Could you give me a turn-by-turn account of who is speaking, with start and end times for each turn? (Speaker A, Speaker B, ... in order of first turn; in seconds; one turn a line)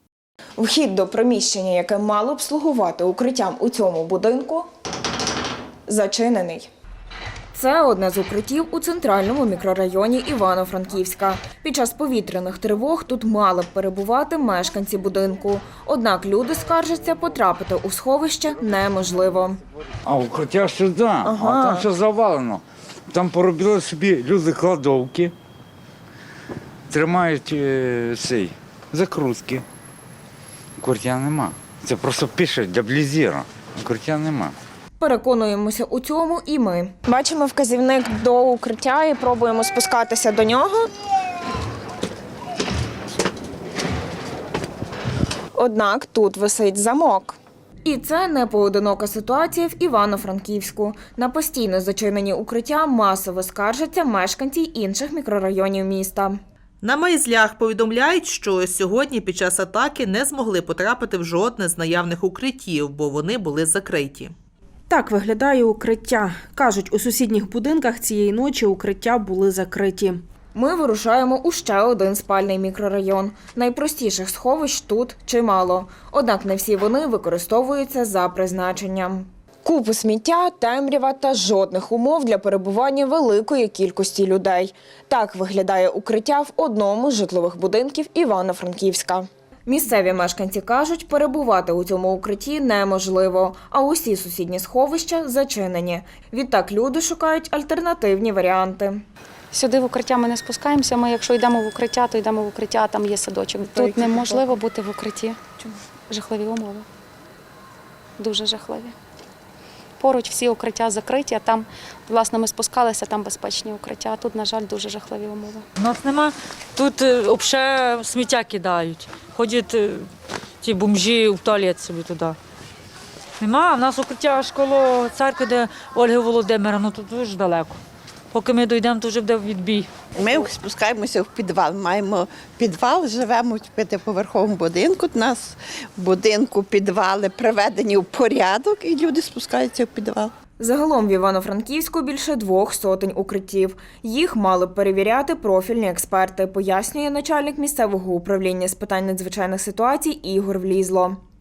Speaker A: 0.6-4.7
Speaker A: 5.9-6.7
Speaker A: 7.5-19.6
Speaker B: 20.1-25.3
Speaker A: 21.2-21.9
Speaker B: 26.9-29.6
Speaker B: 30.8-34.5
Speaker A: 35.0-40.9
Speaker A: 45.5-56.4
Speaker C: 56.8-64.3
Speaker D: 64.9-70.2
Speaker A: 70.5-99.0
Speaker E: 99.5-105.4
Speaker A: 103.6-104.6
Speaker E: 106.1-106.8
Speaker E: 108.2-108.9
Speaker E: 110.0-115.6
Speaker F: 115.8-120.1
Speaker F: 120.6-122.4
Speaker F: 123.4-127.8
Speaker F: 128.3-129.9
Speaker G: 130.1-140.3
Speaker A: 140.6-151.2